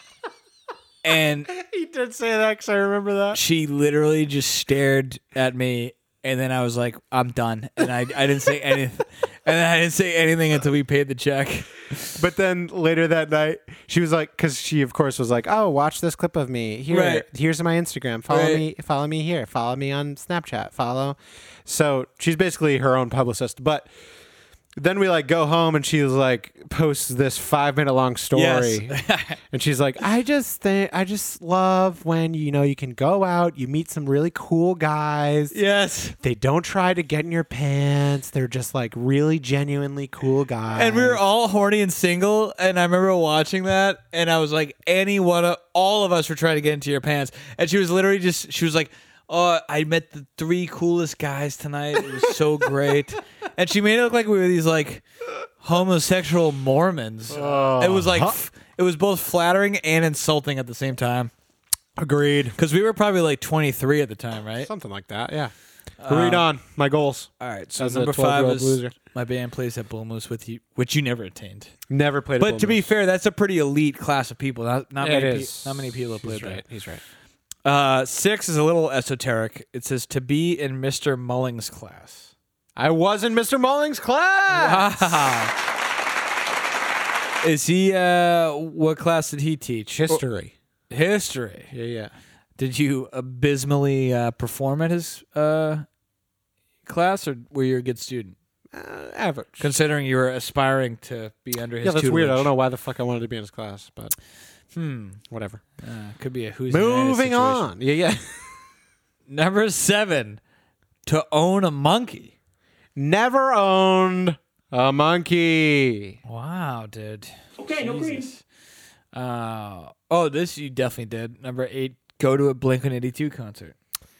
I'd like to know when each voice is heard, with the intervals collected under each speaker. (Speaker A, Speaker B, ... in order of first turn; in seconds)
Speaker A: 1.0-1.5, 3.3-12.2, 16.9-17.3, 18.3-18.7, 28.3-29.4, 35.5-36.2, 40.8-55.0, 55.6-61.3, 62.6-64.7, 66.0-66.5, 67.4-71.7, 72.4-76.6, 77.7-82.3, 84.5-85.5, 87.4-90.2, 90.9-91.7, 92.6-95.9, 96.8-98.4, 99.6-102.5, 104.7-105.2, 105.8-107.7, 109.3-110.4, 111.1-112.3, 116.2-118.4, 119.1-123.8
Speaker B: 1.5-3.4, 12.2-23.9, 24.8-35.6, 36.2-41.2, 57.3-58.4, 62.0-62.6, 64.6-65.5, 66.1-68.9, 71.9-72.9, 75.0-77.0, 82.8-85.2, 89.9-90.5, 91.7-92.1, 98.7-99.7, 101.8-104.1, 105.3-105.6, 106.7-108.7, 113.0-116.2, 117.8-118.2